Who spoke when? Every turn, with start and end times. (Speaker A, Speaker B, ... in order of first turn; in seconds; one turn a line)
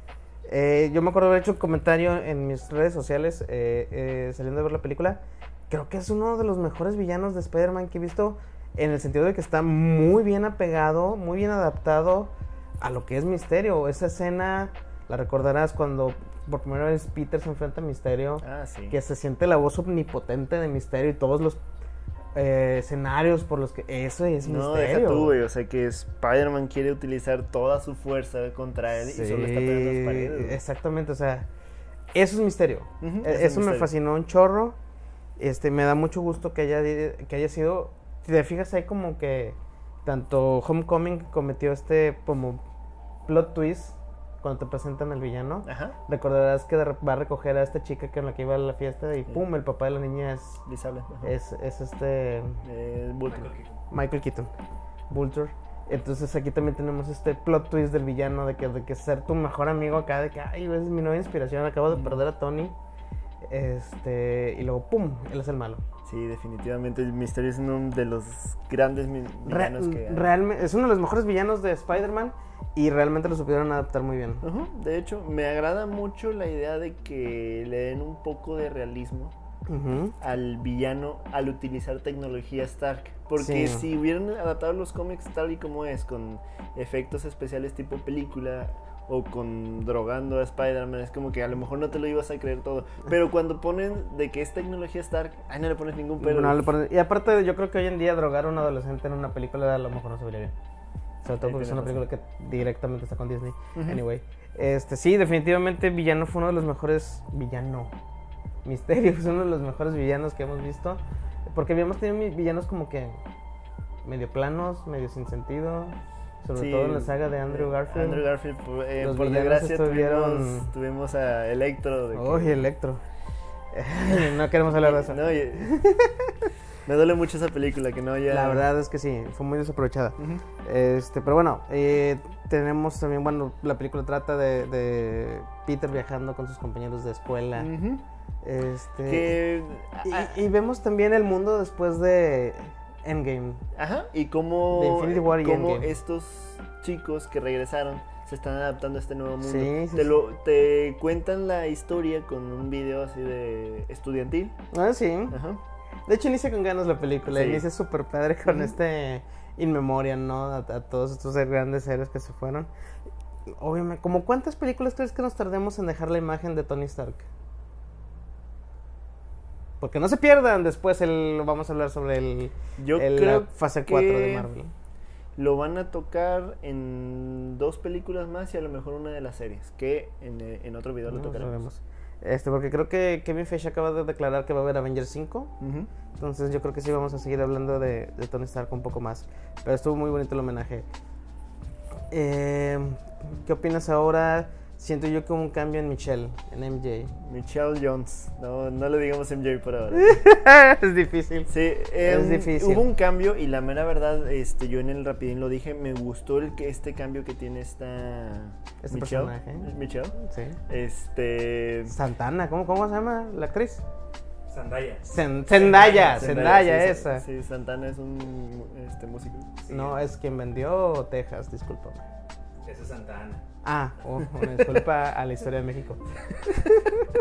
Speaker A: 0.5-21.6
Speaker B: 18.4-19.0
Speaker A: 22.3-25.3
Speaker B: 24.4-30.6
Speaker A: 29.0-31.5
Speaker A: 32.1-34.8
Speaker B: 33.0-33.9
Speaker A: 35.4-42.6
Speaker A: 43.3-50.6
Speaker B: 45.6-46.0
Speaker B: 50.6-51.3
Speaker A: 51.2-52.6
Speaker B: 52.6-53.5
Speaker C: 53.2-53.8
Speaker A: 53.9-54.5
Speaker A: 55.1-62.7
Speaker B: 61.9-62.2
Speaker A: 63.5-65.8
Speaker B: 66.0-70.3
Speaker A: 69.4-74.4
Speaker B: 74.4-79.3
Speaker A: 79.7-80.1
Speaker B: 80.2-96.6
Speaker A: 83.4-83.8
Speaker A: 96.2-100.5
Speaker A: 101.2-107.9
Speaker B: 101.4-102.0
Speaker B: 103.7-104.0
Speaker A: 108.6-113.2
Speaker A: 114.0-118.2
Speaker B: 116.5-122.7
Speaker A: 119.0-120.7
Speaker A: 122.1-123.0
Speaker A: 123.7-126.3
Speaker B: 124.0-125.7
Speaker B: 126.8-128.7
Speaker A: 128.3-137.7
Speaker B: 130.2-130.4
Speaker B: 137.6-138.0
Speaker A: 138.4-139.4
Speaker B: 139.1-140.4
Speaker A: 140.0-143.6
Speaker B: 143.7-154.6
Speaker A: 144.7-145.9
Speaker A: 149.4-150.2
Speaker A: 154.7-155.4
Speaker B: 155.3-155.6
Speaker A: 156.1-162.7
Speaker B: 157.2-157.6
Speaker A: 163.5-167.2
Speaker A: 169.8-174.7
Speaker B: 172.8-174.5
Speaker B: 175.4-181.7
Speaker A: 181.1-185.5
Speaker B: 185.6-185.9
Speaker A: 186.2-190.9
Speaker A: 192.1-197.1
Speaker B: 197.2-200.2
Speaker A: 199.9-201.5
Speaker B: 201.5-210.2
Speaker A: 202.0-202.8
Speaker A: 208.8-210.6
Speaker B: 210.7-211.9
Speaker A: 211.9-213.8
Speaker C: 214.5-216.3
Speaker A: 215.1-217.2
Speaker B: 215.9-219.6
Speaker C: 219.7-220.0
Speaker A: 219.7-222.0
Speaker C: 222.6-223.4
Speaker A: 223.6-226.0